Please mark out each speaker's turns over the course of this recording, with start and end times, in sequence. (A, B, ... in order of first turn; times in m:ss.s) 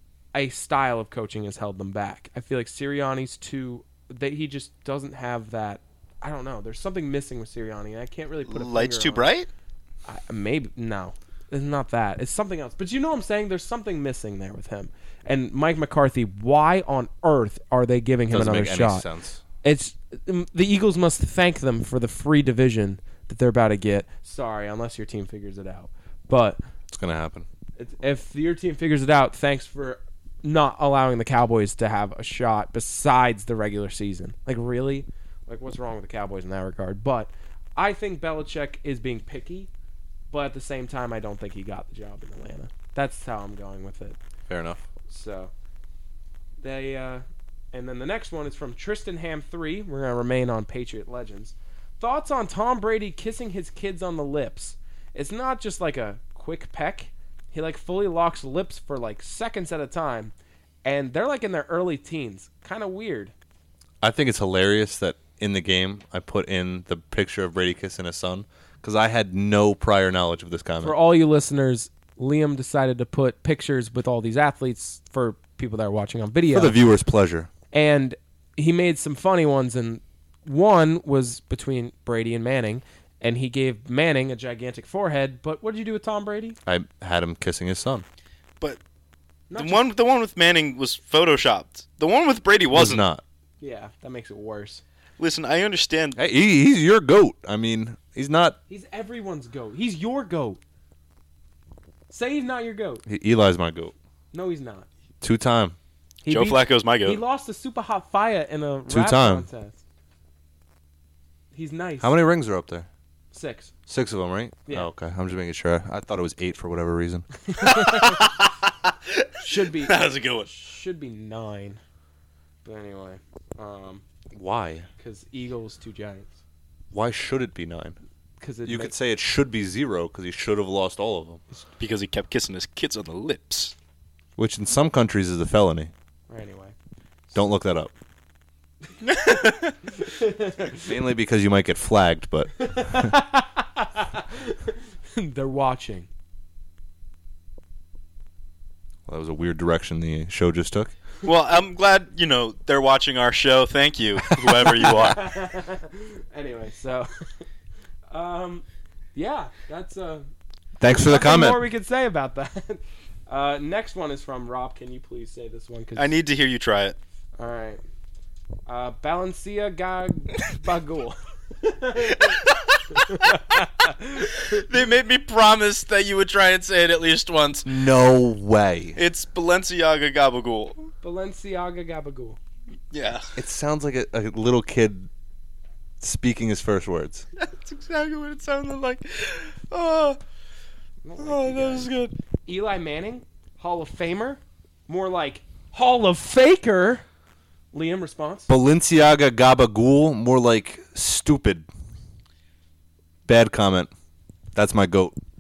0:00.3-0:09.3 A
0:08.5-0:09.5 B
0:10.1-0:19.1 A
0:18.3-0:19.4 C
0:19.6-0:26.6 A
0:26.9-0:27.5 C
0:27.8-0:39.7 A
0:40.3-0:44.2 A
0:44.5-0:44.8 C
0:45.1-0:45.5 A
0:46.6-1:00.3 A
1:00.8-1:03.3 A
1:04.0-1:11.0 C
1:10.8-1:16.8 A
1:16.5-1:17.5 C
1:17.7-1:26.6 A
1:26.7-1:28.0 C
1:29.5-1:29.9 A
1:29.6-1:33.1 B
1:32.7-1:33.2 C
1:33.6-1:34.8 A
1:35.2-1:36.2 B
1:36.2-1:38.6 C
1:38.7-1:40.6 A
1:42.1-1:43.0 A
1:43.1-1:43.9 C
1:44.3-1:44.9 A
1:45.2-1:45.8 C
1:46.2-1:49.8 A
1:46.3-1:47.2 B
1:48.9-1:49.5 C
1:51.5-1:52.2 A
1:52.0-1:52.9 C
1:53.3-1:53.7 A
1:53.9-1:57.3 C
1:57.5-1:58.2 A
1:57.6-2:00.5 B
1:59.4-2:01.8 A
2:02.6-2:04.0 A
2:04.3-2:04.9 C
2:05.0-2:06.4 A
2:06.9-2:08.0 C
2:08.4-2:08.9 A
2:08.6-2:11.4 C
2:11.8-2:13.8 B
2:14.4-2:15.9 C
2:16.3-2:16.8 A
2:17.3-2:17.9 C
2:19.0-2:19.7 B
2:20.0-2:20.9 A
2:20.7-2:23.2 C
2:22.6-2:26.1 A
2:29.1-2:30.9 C
2:31.2-2:35.2 B
2:34.3-2:35.1 C
2:35.0-2:37.1 A
2:38.1-2:40.3 A
2:40.8-2:41.6 C
2:40.9-2:46.2 A
2:46.0-2:47.0 B
2:47.4-2:47.8 A
2:48.7-2:52.4 A
2:52.1-2:53.4 B
2:53.0-2:54.6 A
2:54.2-2:57.7 B
2:57.6-2:59.0 C
2:59.0-3:00.9 B
3:01.0-3:02.4 A
3:02.9-3:03.4 B
3:03.4-3:05.1 C
3:06.0-3:07.2 C
3:07.4-3:10.2 B
3:11.0-3:11.9 A
3:11.2-3:12.2 B
3:12.5-3:17.0 A
3:17.7-3:18.5 A
3:18.5-3:21.7 C
3:23.2-3:23.9 C
3:24.6-3:25.2 C